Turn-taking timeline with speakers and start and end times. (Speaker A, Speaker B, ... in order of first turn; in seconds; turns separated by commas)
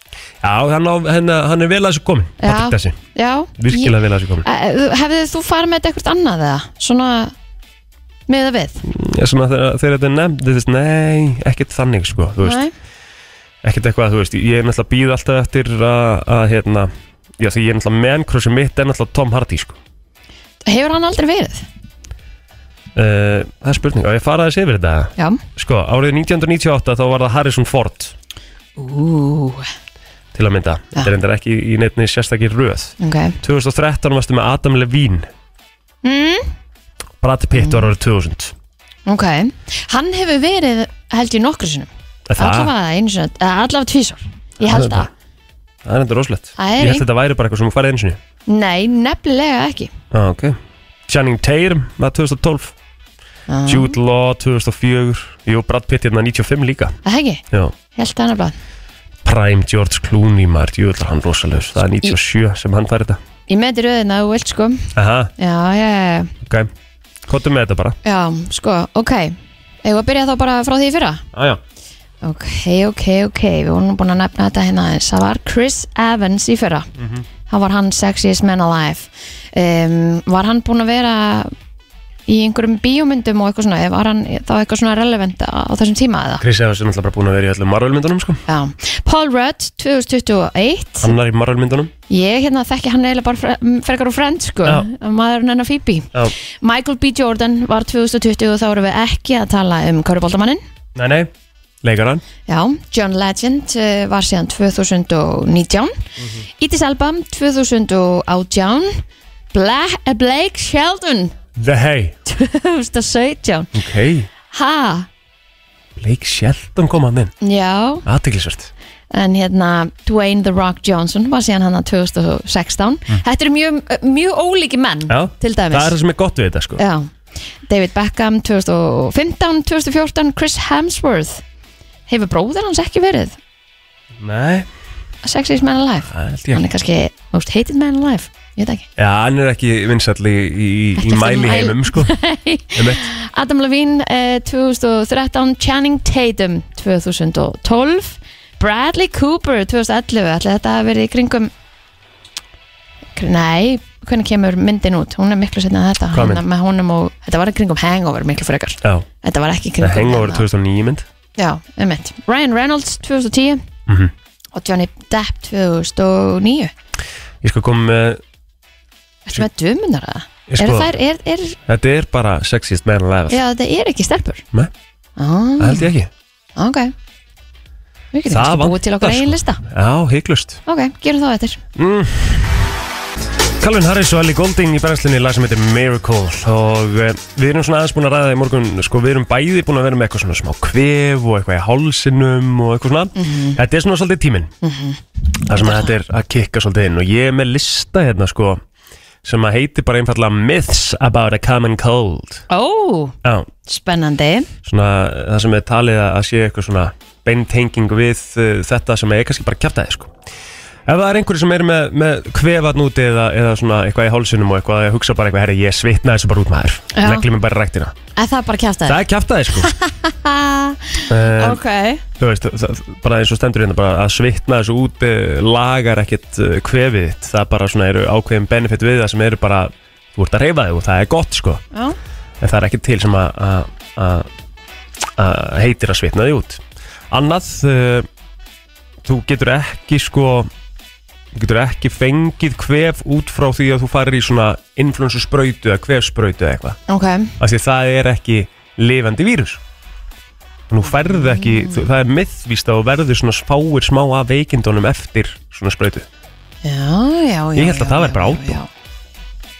Speaker A: 0.4-3.0, Speaker B: 2.4-7.3, Speaker A: 3.6-4.4, Speaker B: 8.3-8.8, Speaker A: 8.8-12.6, Speaker B: 12.4-12.7, Speaker A: 13.6-19.8, Speaker B: 20.6-21.6, Speaker A: 22.9-28.1, Speaker B: 25.2-25.4, Speaker B: 28.8-29.6, Speaker A: 30.3-35.3, Speaker B: 33.0-33.4, Speaker B: 36.0-36.5, Speaker A: 37.2-38.5, Speaker B: 37.5-37.9, Speaker B: 39.1-45.1, Speaker A: 42.3-42.7, Speaker A: 44.6-45.1, Speaker A: 45.8-48.2, Speaker B: 46.6-47.0, Speaker B: 48.5-49.9, Speaker A: 50.1-52.7, Speaker B: 53.5-54.0, Speaker A: 53.6-57.0, Speaker B: 57.0-57.4, Speaker B: 57.9-58.5, Speaker A: 59.2-63.2, Speaker B: 63.5-66.3, Speaker A: 64.9-65.3, Speaker A: 66.4-66.7, Speaker A: 67.3-67.9, Speaker B: 68.0-71.2, Speaker A: 71.3-71.6, Speaker B: 72.2-76.9, Speaker A: 77.0-77.2, Speaker B: 77.5-81.5, Speaker B: 82.3-86.4, Speaker A: 86.4-88.4, Speaker B: 88.5-91.1, Speaker A: 91.0-91.9, Speaker B: 92.1-100.6, Speaker A: 100.9-101.3, Speaker A: 101.8-102.2, Speaker B: 102.5-105.9, Speaker A: 106.2-106.4, Speaker B: 106.6-109.0, Speaker B: 109.5-111.3, Speaker A: 111.5-112.2, Speaker B: 112.3-113.7, Speaker A: 113.7-114.3, Speaker B: 114.5-115.1, Speaker A: 116.0-117.3, Speaker B: 117.4-118.0, Speaker A: 118.0-118.7, Speaker B: 119.1-125.9, Speaker A: 125.1-126.8, Speaker B: 126.8-127.1, Speaker B: 127.7-131.4, Speaker B: 132.1-133.4, Speaker A: 134.2-134.7, Speaker B: 135.2-138.9, Speaker A: 136.1-136.6, Speaker A: 139.0-142.1, Speaker B: 141.0-151.5, Speaker A: 142.7-143.1, Speaker B: 153.2-160.4, Speaker A: 156.1-156.4, Speaker A: 159.8-161.1, Speaker B: 161.4-163.6, Speaker A: 163.9-164.1, Speaker B: 164.5-166.7, Speaker A: 167.4-168.2, Speaker B: 169.3-171.6, Speaker A: 170.5-170.9, Speaker A: 171.7-173.4, Speaker B: 173.3-174.4, Speaker B: 175.2-175.9, Speaker A: 175.6-176.1, Speaker B: 176.6-176.9, Speaker B: 178.1-179.6, Speaker A: 178.3-180.6, Speaker B: 180.7-181.6, Speaker A: 181.8-182.7, Speaker A: 183.6-194.5, Speaker B: 193.2-193.6, Speaker B: 194.6-195.0, Speaker A: 195.5-198.6, Speaker B: 195.5-195.9, Speaker A: 199.2-202.4, Speaker B: 202.5-204.5, Speaker A: 204.6-210.1, Speaker A: 210.8-217.9, Speaker B: 216.9-217.2, Speaker B: 218.2-219.0, Speaker A: 218.8-219.7, Speaker B: 219.6-222.0, Speaker A: 221.1-221.6, Speaker A: 222.2-231.6, Speaker A: 232.4-234.3, Speaker A: 235.2-238.1, Speaker A: 239.0-240.5, Speaker A: 241.3-246.8, Speaker B: 246.9-247.3, Speaker A: 247.4-249.6, Speaker A: 250.7-256.1, Speaker B: 250.8-251.9, Speaker B: 256.6-258.7, Speaker A: 257.6-258.6